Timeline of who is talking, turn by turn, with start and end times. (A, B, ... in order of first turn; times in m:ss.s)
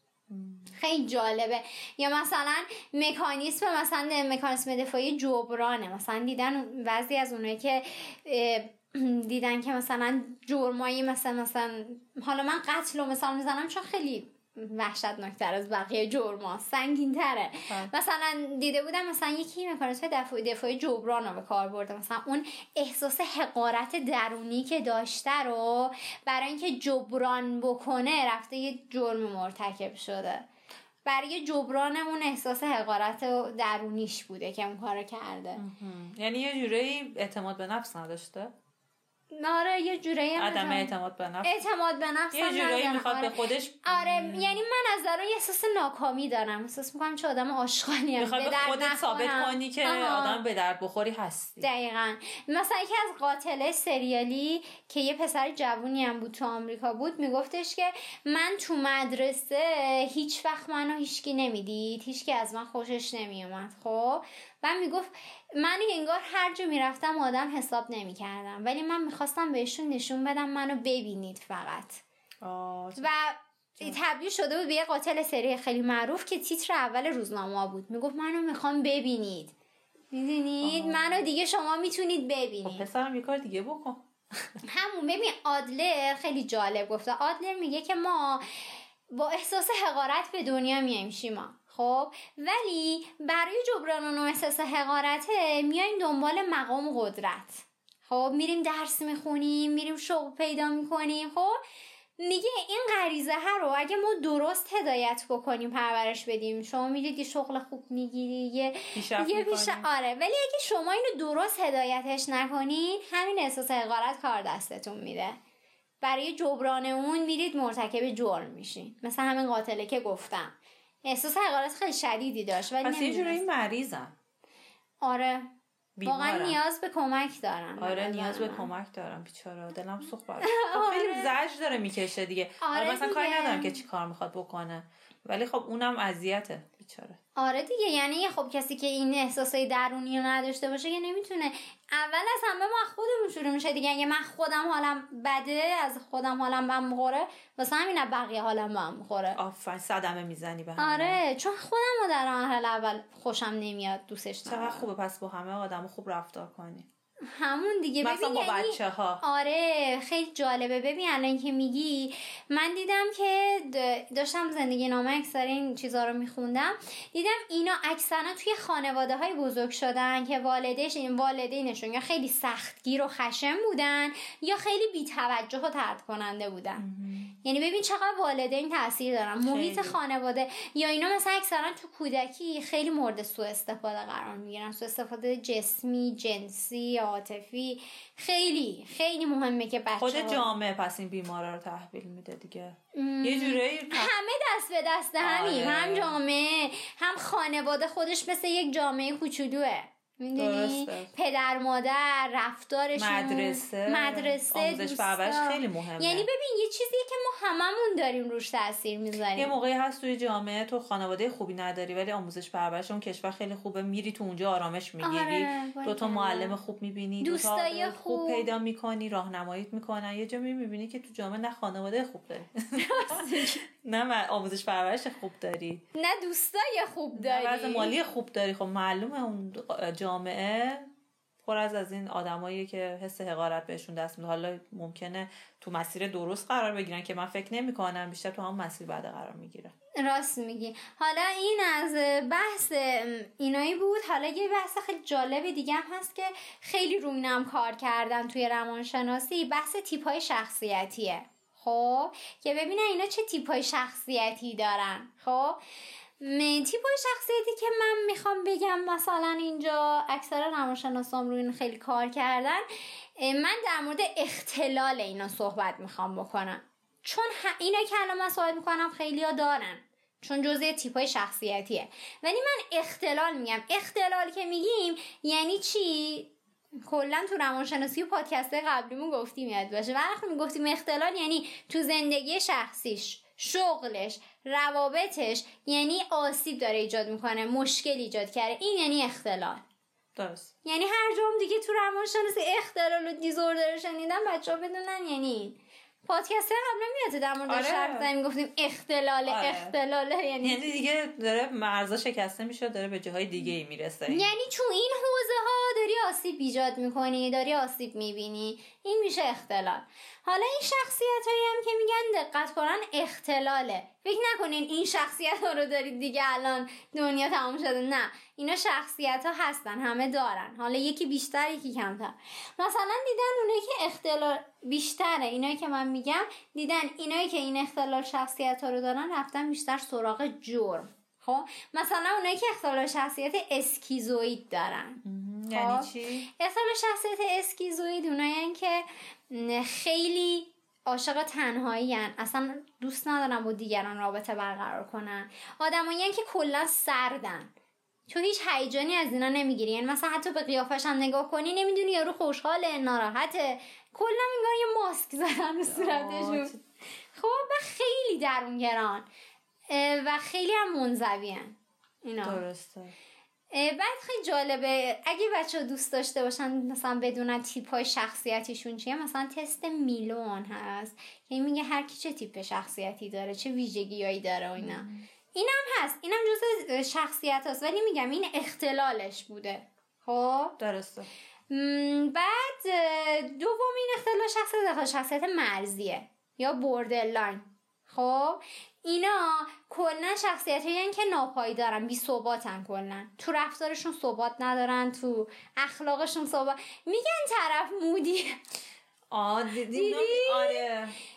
0:00.3-0:00.7 A
0:00.7-0:30.4 B
0:31.0-0:35.6 B
0:35.5-0:38.5 A
0:39.3-0:40.9 B
0:40.4-0:41.7 A
0:41.4-0:50.4 B
0:42.3-0:44.6 A
0:48.2-0:51.7 A
0:51.6-1:12.0 B
1:12.4-1:13.1 A
1:13.0-1:19.5 B
1:20.1-1:22.8 B
1:20.6-1:21.3 A
1:22.6-1:24.6 A
1:24.6-1:41.6 B
1:42.2-1:55.4 B
1:48.9-1:49.9 A
1:56.0-2:03.4 B
2:02.8-2:04.1 A
2:05.0-2:05.5 B
2:06.0-2:06.6 A
2:06.0-2:08.7 B
2:07.8-2:17.2 A
2:10.4-2:11.3 B
2:12.6-2:13.8 B
2:17.4-2:29.4 B
2:29.4-2:31.2 A
2:30.8-2:34.8 B
2:34.5-2:36.9 A
2:37.3-2:56.8 B
2:38.0-2:39.2 A
2:56.8-2:57.3 A
2:57.4-3:10.5 B
2:59.4-3:00.0 A
3:10.0-3:14.1 A
3:12.9-3:29.5 B
3:15.2-3:16.2 A
3:20.4-3:21.1 A
3:23.0-3:26.3 A
3:29.3-3:45.8 A
3:35.0-3:36.6 B
3:37.2-3:38.5 B
3:42.8-3:43.6 B
3:45.9-3:47.9 B
3:47.1-3:50.9 A
3:51.4-3:59.7 A
4:00.0-4:15.6 B
4:16.2-4:22.6 B
4:23.2-4:36.3 B
4:36.9-4:49.6 B
4:50.2-4:50.5 A
4:50.6-5:00.8 B
4:57.5-4:58.1 A
4:59.3-4:59.7 A
5:00.4-5:04.3 A
5:04.1-5:35.0 B
5:35.0-5:36.3 A
5:35.5-5:47.5 B
5:48.1-5:56.5 B
5:55.7-5:56.6 A
5:57.1-5:59.0 B
5:59.7-6:02.4 B
6:02.2-6:02.9 A
6:03.5-6:20.6 B
6:14.6-6:15.1 A
6:20.6-6:21.1 A
6:21.5-6:38.4 B
6:39.1-6:40.9 A
6:39.7-6:40.7 B